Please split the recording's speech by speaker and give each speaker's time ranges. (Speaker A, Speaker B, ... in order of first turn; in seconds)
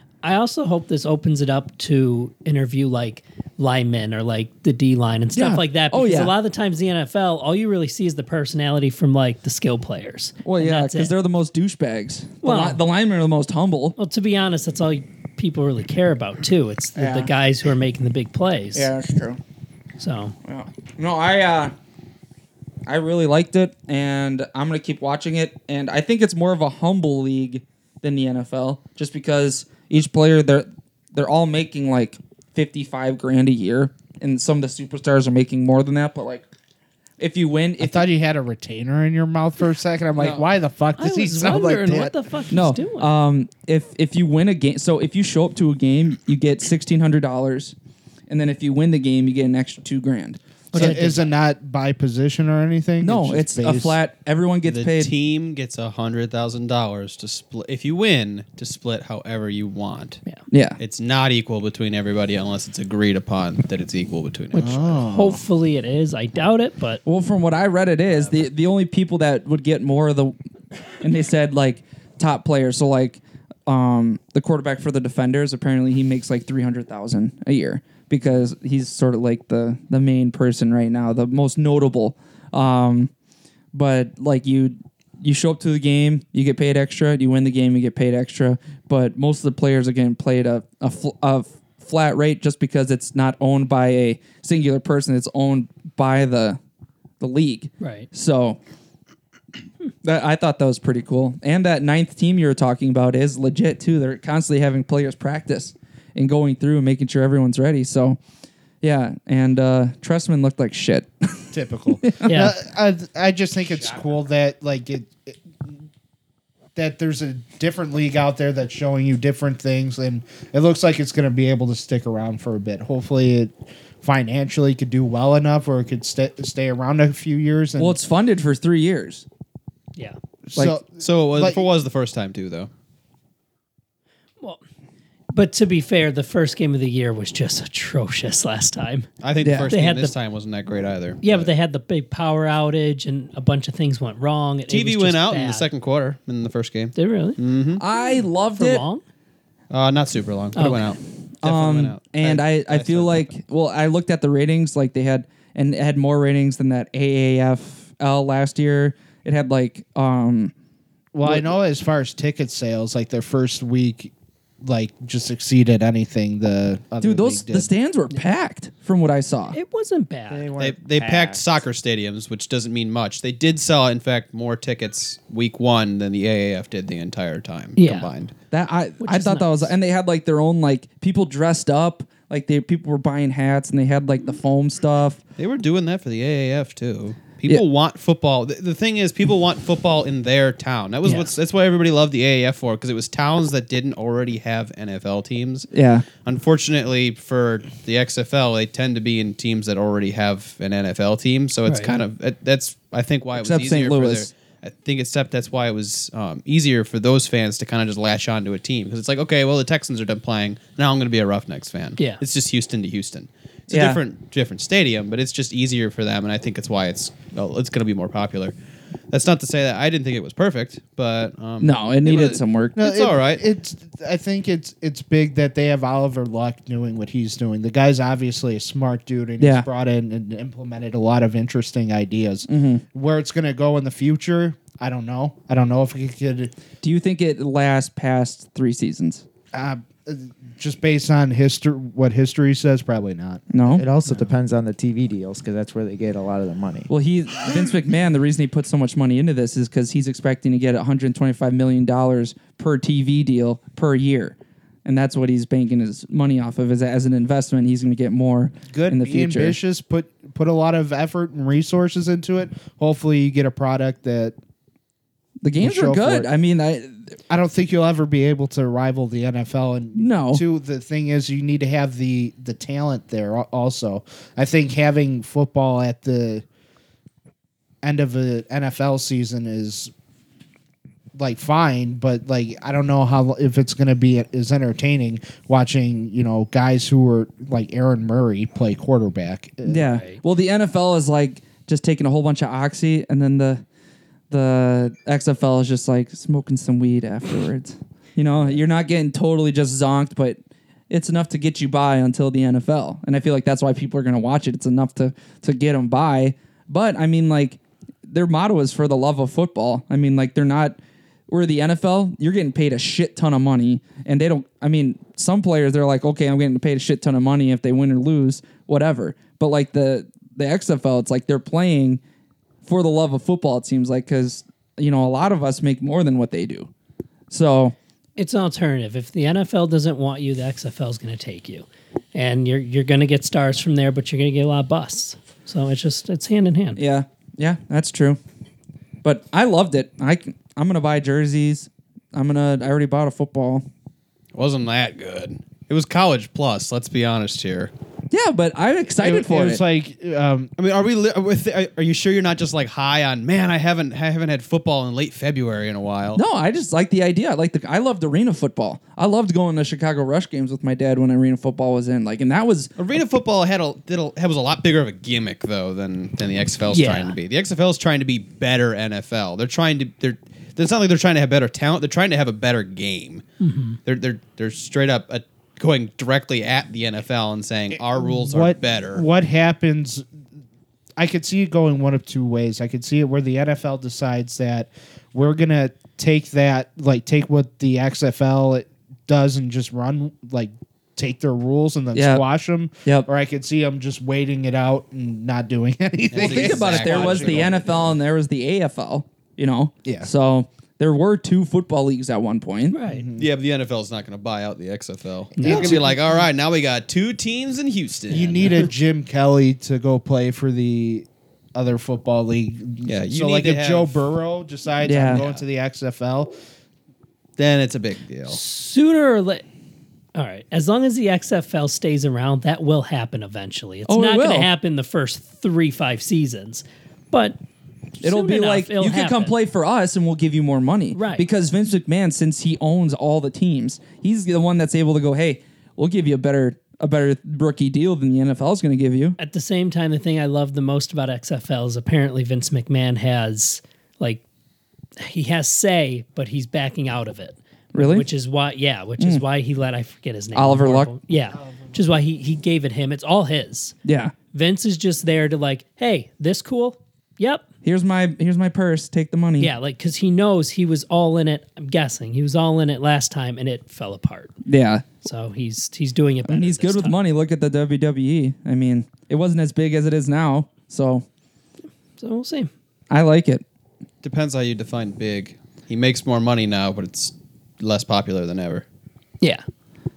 Speaker A: 0.2-11.1, 12.4-12.8, 14.0-18.9, 20.0-20.3, 41.0-43.1, 50.7-51.3, 64.5-67.0, 97.8-98.1, 112.2-112.5, 135.3-139.1, 139.7-140.1, 141.2-145.7, 146.9-147.4, 148.5-149.0, 150.5-150.9, 169.5-170.4, 177.8-178.1, 179.0-179.7, 191.0-191.3, 201.7-201.9, 212.0-212.2, 289.9-290.2, 328.2-336.8, 366.7-367.1, 373.4-373.8, 402.7-403.1, 405.4-405.8, 418.3-419.4, 420.1-427.4, 428.0-429.4, 430.9-431.2, 439.2-444.2, 445.0-453.8, 454.3-457.4, 459.4-464.3, 465.0-467.0, 472.0-472.5
Speaker B: 5.3-6.3, 10.4-14.0, 16.9-17.3, 18.7-19.4, 20.4-21.7, 22.9-36.4, 37.2-38.1, 40.2-40.5, 42.5-47.7, 48.3-51.1, 53.0-55.1, 60.5-60.8, 67.0-70.3, 71.0-83.1, 83.7-96.6, 97.2-98.6, 100.0-108.2, 108.8-112.5, 127.8-129.2, 139.4-139.7, 147.8-148.8, 151.4-160.5, 161.2-161.5, 167.0-169.6, 178.5-185.2, 195.7-196.1, 203.4-204.3, 213.7-214.0, 221.6-222.8, 229.4-229.7, 232.5-232.8, 236.8-239.2, 243.5-243.8, 246.9-259.6, 265.4-267.2, 269.9-270.4, 289.6-293.6, 294.3-300.4, 300.9-310.8, 311.3-322.0, 322.6-326.7, 327.3-327.7, 336.8-338.2, 339.0-343.6, 348.1-349.6, 356.1-362.8, 391.9-392.2, 396.1-402.8, 414.8-415.2, 423.9-424.5, 428.0-439.2, 447.7-448.1, 449.0-449.2, 450.3-450.9, 453.8-454.1, 457.6-459.5, 464.4-464.8, 466.2-471.0, 472.9-473.4
Speaker C: 37.8-42.1, 50.7-54.0, 64.5-65.4, 111.5-115.7, 116.7-128.0, 130.5-131.6, 161.1-164.1, 164.6-167.7, 222.8-236.5, 239.5-243.5, 258.7-264.4, 265.6-266.3, 267.3-276.4, 277.8-279.9, 281.1-290.0, 349.0-350.5, 377.9-380.1, 381.0-397.9, 399.8-400.1, 402.9-403.3, 405.4-405.9, 408.1-416.3, 451.4-451.7
Speaker D: 54.6-60.2, 60.8-64.9, 131.0-132.7, 139.2-141.5, 144.7-147.8, 149.7-153.3, 170.6-178.3, 185.4-218.5, 219.1-223.4, 344.3-347.7, 350.6-356.2, 362.8-373.2, 373.9-379.0, 396.1-397.6, 403.2-408.6, 412.8-413.9, 415.1-415.4, 417.4-418.4, 474.0-478.6
Speaker E: 170.3-171.6, 243.7-246.9